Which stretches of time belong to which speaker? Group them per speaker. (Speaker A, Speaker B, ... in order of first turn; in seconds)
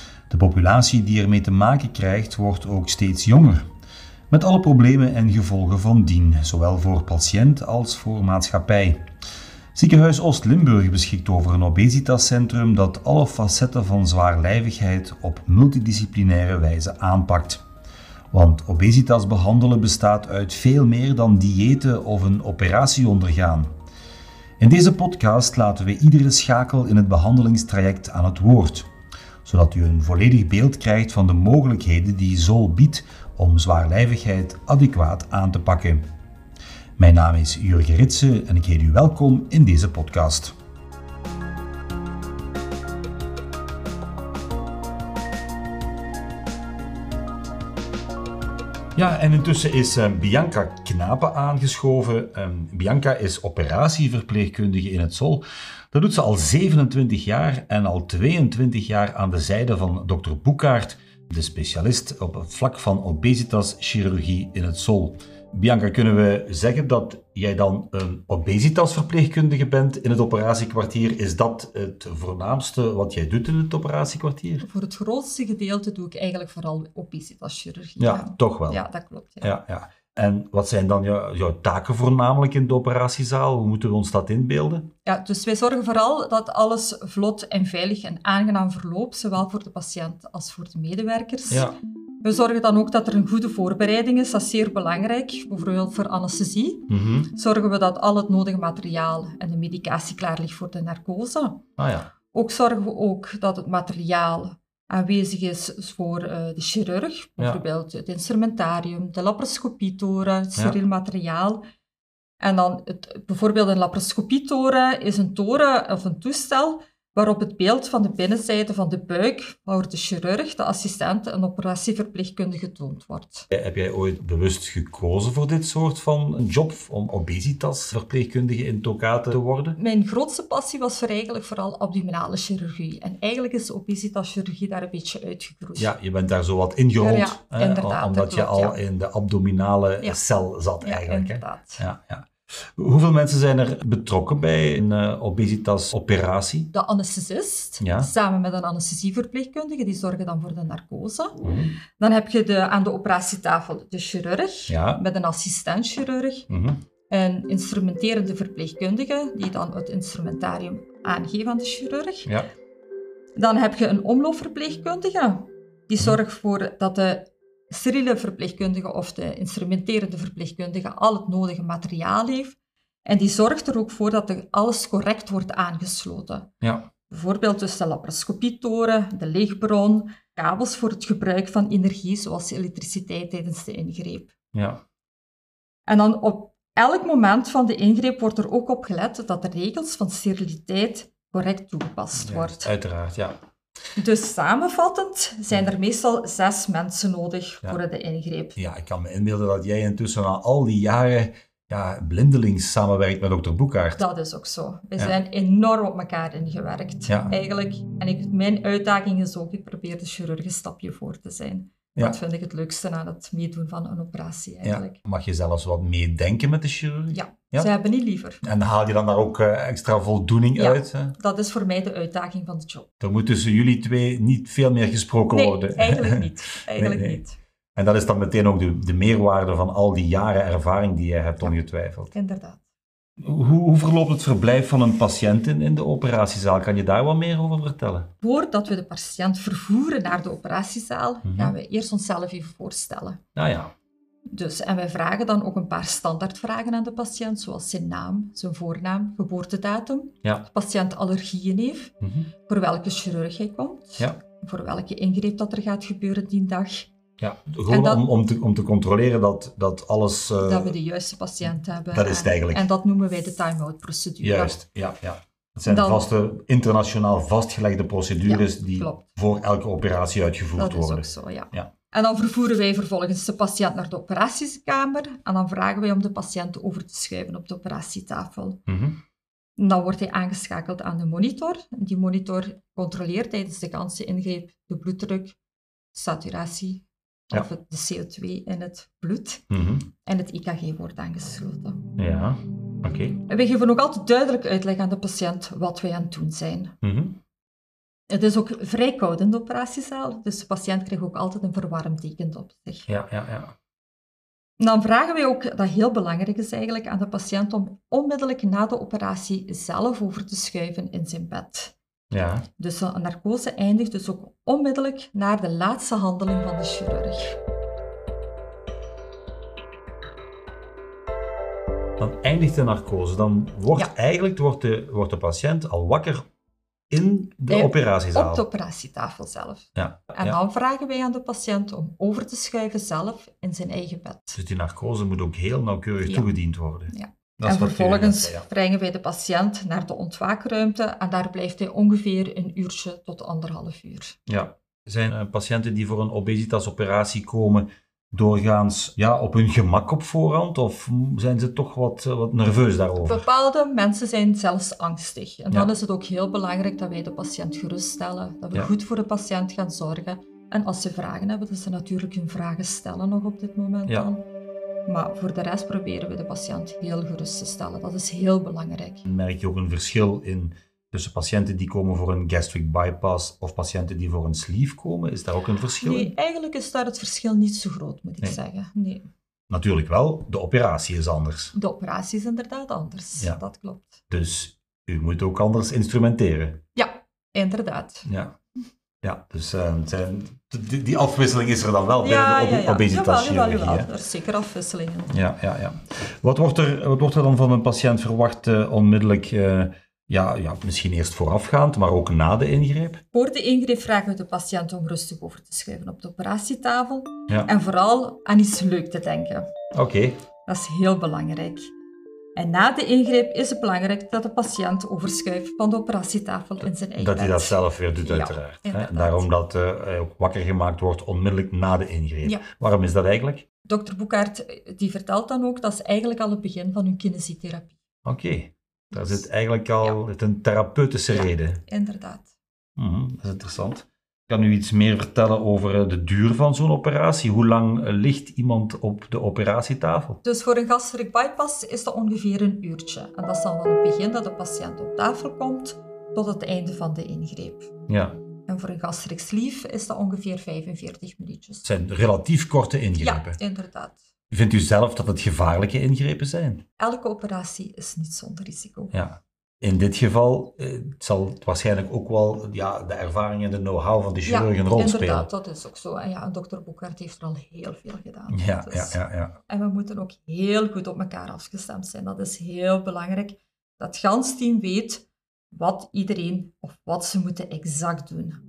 Speaker A: 0.3-3.6, 4.3-9.0, 9.7-17.6, 18.3-23.7, 24.6-28.9, 29.4-36.0, 37.0-40.5, 48.9-74.6, 78.0-78.8, 79.4-84.9, 91.5-91.8, 96.9-97.3, 101.8-102.1, 123.5-129.8, 135.8-146.7, 147.8-148.1, 151.4-151.8, 154.7-155.0, 156.5-156.8, 162.2-162.5, 176.6-176.9, 184.5-184.8, 192.1-193.4, 198.6-204.0, 214.6-217.7, 218.4-221.2, 223.0-227.2, 227.7-232.1, 233.2-238.1, 241.2-241.5, 243.3-243.7, 252.0-252.3, 257.2-260.7, 261.9-262.7, 264.2-271.7, 278.7-279.0, 289.5-289.9, 292.0-293.2, 296.8-297.2, 302.9-303.5, 312.1-312.5, 322.0-326.2, 326.9-328.4, 329.8-330.4, 334.3-338.4, 344.3-353.2, 369.1-376.1, 379.5-381.5, 384.1-386.6, 388.1-388.3, 389.0-393.9, 395.1-403.0, 409.7-410.2, 416.9-423.4, 428.0-431.6, 432.8-440.2, 447.9-448.2, 451.6-453.4, 454.3-456.6, 458.9-465.3, 468.3-469.4
Speaker B: 74.6-79.5, 85.0-101.6, 102.3-111.6, 112.4-123.5, 129.8-135.9, 137.0-138.8, 140.8-141.8, 146.7-151.4, 152.0-156.5, 157.1-162.3, 163.4-176.5, 177.1-184.3, 185.9-192.7, 193.9-198.6, 204.0-215.0, 217.1-218.4, 220.6-222.9, 225.3-227.4, 232.1-232.6, 238.2-243.2, 244.3-251.9, 252.5-256.9, 257.7-258.1, 260.4-264.6, 265.6-266.1, 268.2-269.1, 270.6-278.6, 279.6-285.4, 285.9-289.4, 290.0-291.8, 293.2-296.7, 298.1-302.9, 304.6-311.7, 312.6-317.4, 327.5-334.4, 336.9-344.2, 353.0-364.2, 364.9-369.1, 375.8-379.1, 381.5-384.0, 386.8-388.1, 392.0-395.2, 403.1-409.5, 410.4-411.7, 412.4-419.3, 423.6-427.7, 428.9-429.2, 431.1-432.3, 440.2-447.7, 448.5-451.6, 453.0-454.0, 456.8-458.9, 464.2-478.4